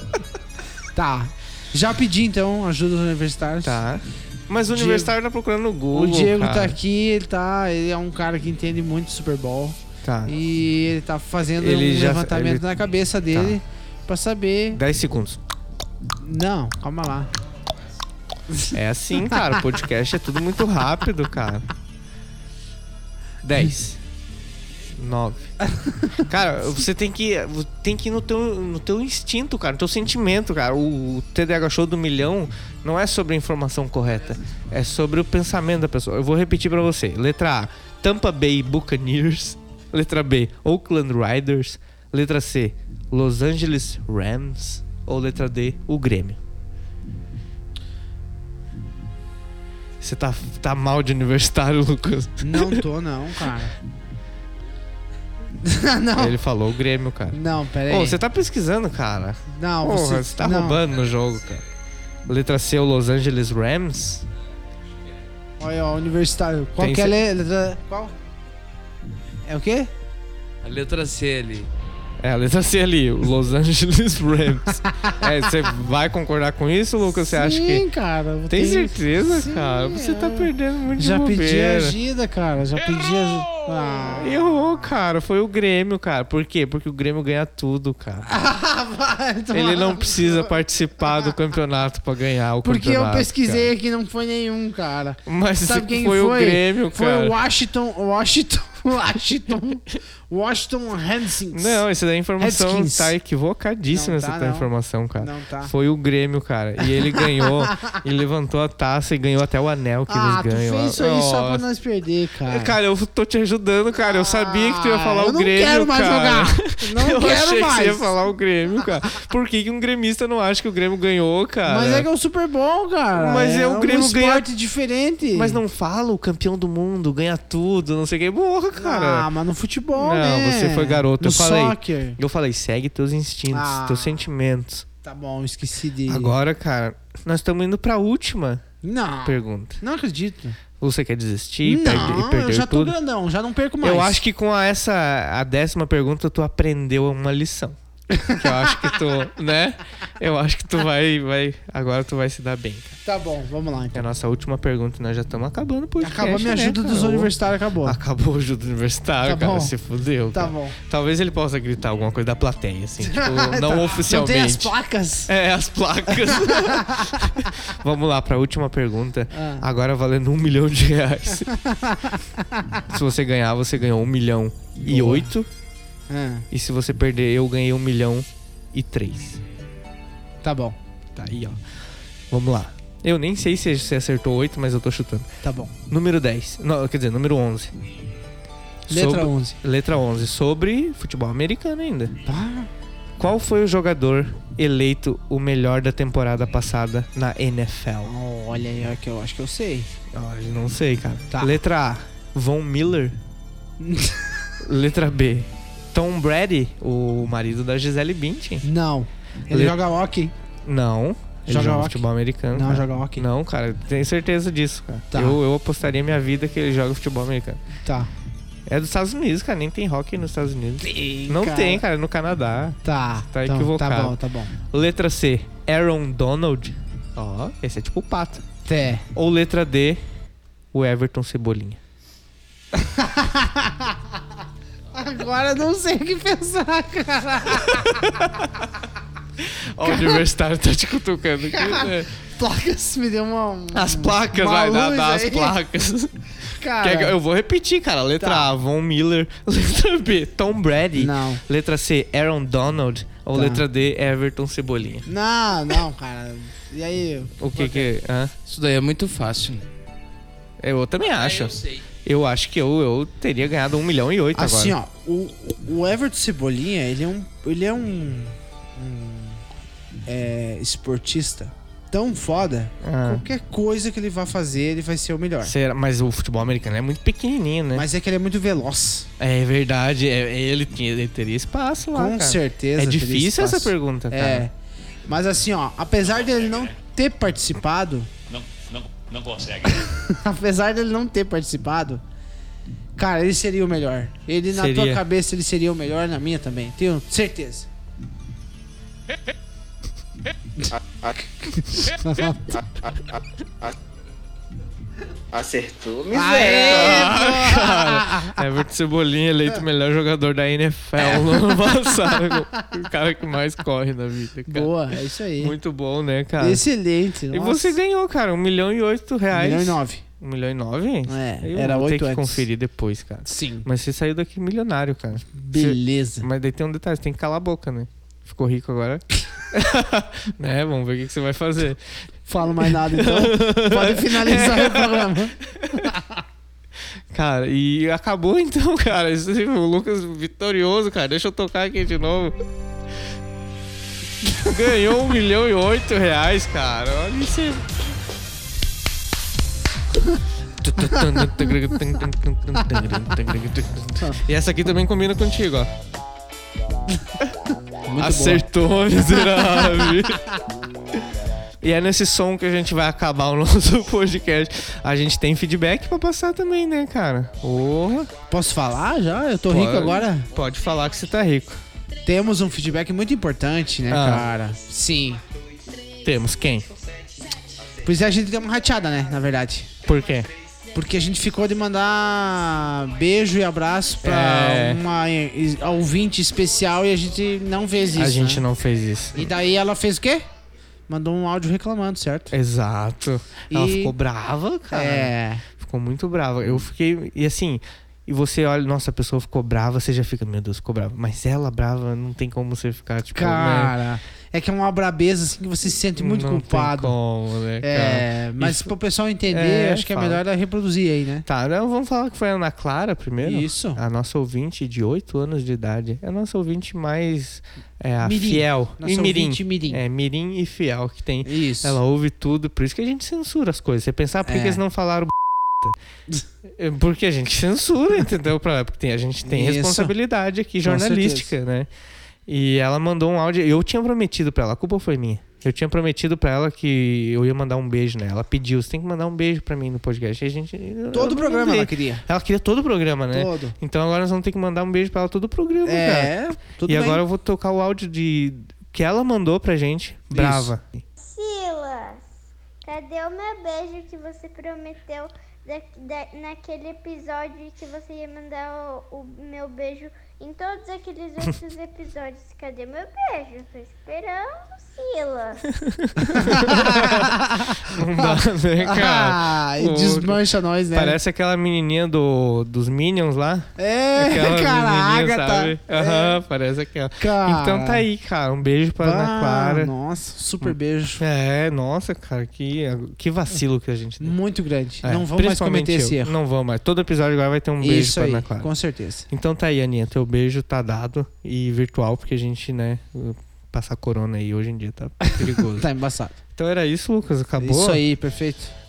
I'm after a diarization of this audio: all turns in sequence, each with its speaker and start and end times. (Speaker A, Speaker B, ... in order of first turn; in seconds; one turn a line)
Speaker A: 0.9-3.8
Speaker B: 3.6-6.8
Speaker A: 4.7-5.1
Speaker A: 5.9-14.8
Speaker B: 10.0-10.3
Speaker B: 11.6-12.7
Speaker B: 13.3-13.6
Speaker B: 14.7-15.4
Speaker A: 16.2-17.3
Speaker B: 18.7-21.7
Speaker B: 23.4-24.0
Speaker B: 24.9-46.4
Speaker A: 25.7-26.2
Speaker B: 50.0-52.8
Speaker A: 52.4-53.7
Speaker A: 55.6-56.4
Speaker B: 56.2-61.6
Speaker A: 57.3-58.2
Speaker A: 59.5-60.8
Speaker B: 62.3-64.3
Speaker A: 65.6-68.1
Speaker B: 66.8-67.2
Speaker A: 69.5-69.9
Speaker C: 70.6-71.7
Speaker B: 72.2-77.9
Speaker A: 74.8-75.2
Speaker A: 77.1-84.5
Speaker B: 78.5-82.0
Speaker B: 84.2-88.3
Speaker A: 88.2-90.6
Speaker B: 89.5-93.7
Speaker A: 92.6-101.8
Speaker B: 95.3-97.4
Speaker B: 101.5-111.6
Speaker A: 102.4-103.2
Speaker A: 103.9-105.7
Speaker A: 106.9-108.0
Speaker A: 110.1-112.8
Speaker B: 112.5-122.1
Speaker A: 114.0-118.2
Speaker A: 121.7-125.6
Speaker B: 123.2-124.5
Speaker B: 125.3-129.3
Speaker A: 128.8-132.2
Speaker B: 130.0-134.9
Speaker A: 133.5-134.3
Speaker A: 135.0-136.3
Speaker B: 136.1-138.6
Speaker A: 138.8-140.6
Speaker B: 139.2-139.8
Speaker B: 140.8-142.9
Speaker A: 141.6-144.2
Speaker B: 143.8-147.8
Speaker A: 148.1-148.9
Speaker B: 148.3-153.0
Speaker A: 153.1-154.0
Speaker B: 153.9-164.8
Speaker A: 156.0-158.0
Speaker A: 159.2-159.7
Speaker A: 160.3-160.8
Speaker A: 163.0-165.3
Speaker B: 165.3-171.5
Speaker A: 166.2-167.5
Speaker A: 169.3-169.7
Speaker A: 171.5-172.8
Speaker B: 172.9-175.5
Speaker A: 174.9-175.3
Speaker A: 176.1-176.5
Speaker B: 176.5-179.4
Speaker A: 180.4-180.8
Speaker B: 181.2-181.6
Speaker B: 182.3-185.3
Speaker A: 185.4-185.7
Speaker B: 185.9-187.7
Speaker A: 188.9-189.6
Speaker B: 188.9-192.2
Speaker A: 192.2-192.7
Speaker B: 193.2-198.1
Speaker A: 198.1-199.9
Speaker B: 200.1-203.2
Speaker A: 201.3-201.6
Speaker A: 203.8-204.4
Speaker B: 204.6-208.7
Speaker A: 208.6-210.3
Speaker B: 209.5-209.8
Speaker B: 210.7-217.6
Speaker A: 211.5-213.3
Speaker A: 215.1-215.4
Speaker A: 217.8-218.1
Speaker B: 218.7-228.4
Speaker A: 220.8-221.8
Speaker A: 222.8-224.5
Speaker A: 228.7-229.1
Speaker B: 229.1-230.0
Speaker B: 230.7-231.8
Speaker A: 232.8-234.0
Speaker A: 234.9-238.4
Speaker B: 237.8-238.3
Speaker B: 239.4-242.1
Speaker A: 239.8-240.2
Speaker A: 241.5-245.6
Speaker B: 243.7-246.1
Speaker A: 246.5-247.2
Speaker B: 246.8-255.1
Speaker A: 248.2-248.6
Speaker A: 251.0-251.4
Speaker A: 253.3-253.6
Speaker A: 255.1-257.9
Speaker B: 257.4-258.3
Speaker C: 258.5-259.6
Speaker B: 260.6-264.8
Speaker C: 261.2-261.6
Speaker A: 264.4-269.4
Speaker A: 270.1-275.5
Speaker B: 272.8-273.2
Speaker B: 275.4-277.9
Speaker A: 277.7-279.1
Speaker B: 279.2-284.5
Speaker A: 281.9-284.5
Speaker A: 285.1-288.1
Speaker A: 289.6-292.0
Speaker A: 293.0-297.7
Speaker B: 294.5-295.0
Speaker A: 301.4-302.5
Speaker D: 305.3-307.2
Speaker A: 306.1-308.4
Speaker B: 306.5-316.6
Speaker A: 311.0-312.7
Speaker A: 314.5-315.6
Speaker A: 316.4-317.8
Speaker B: 317.3-331.9
Speaker A: 319.3-320.0
Speaker A: 321.1-322.5
Speaker A: 323.3-323.7
Speaker A: 325.4-326.3
Speaker A: 332.3-336.2
Speaker B: 332.6-335.9
Speaker B: 337.1-342.4
Speaker B: 344.4-347.9
Speaker B: 350.6-355.7
Speaker A: 357.9-358.4
Speaker B: 358.0-360.2
Speaker A: 359.3-359.9
Speaker B: 361.6-368.1
Speaker A: 368.3-370.3
Speaker B: 369.4-371.6
Speaker A: 372.1-375.2
Speaker B: 373.9-374.3
Speaker B: 376.0-376.7
Speaker D: 376.7-377.3
Speaker A: 377.8-379.7
Speaker B: 379.8-380.3
Speaker A: 380.7-388.5
Speaker B: 384.0-384.8
Speaker B: 388.0-389.3
Speaker A: 389.2-390.3
Speaker A: 390.9-392.3
Speaker B: 392.3-403.8
Speaker A: 393.5-393.9
Speaker A: 394.7-395.4
Speaker A: 403.1-406.9
Speaker B: 406.0-408.7
Speaker A: 407.6-411.3
Speaker B: 409.3-410.2
Speaker B: 411.2-425.8
Speaker A: 413.2-413.8
Speaker A: 418.0-419.8
Speaker A: 421.2-421.8
Speaker A: 424.2-424.6
Speaker B: 426.5-431.7
Speaker A: 429.2-429.9
Speaker A: 430.6-431.3
Speaker B: 432.3-450.8
Speaker A: 440.9-442.1
Speaker A: 443.1-443.6
Speaker A: 445.7-447.0
Speaker A: 450.1-450.5
Speaker E: 451.0-452.1
Speaker E: 452.6-465.5
Speaker B: 465.6-479.7
Speaker A: 466.0-471.0
Speaker A: 473.6-476.2
Speaker A: 477.0-477.9
Speaker A: 478.8-481.0
Speaker B: 480.4-484.2
Speaker A: 484.0-486.1
Speaker B: 484.8-488.5
Speaker A: 487.6-489.1
Speaker B: 489.1-495.7
Speaker A: 495.0-496.2
Speaker B: 496.4-497.8
Speaker A: 497.4-498.5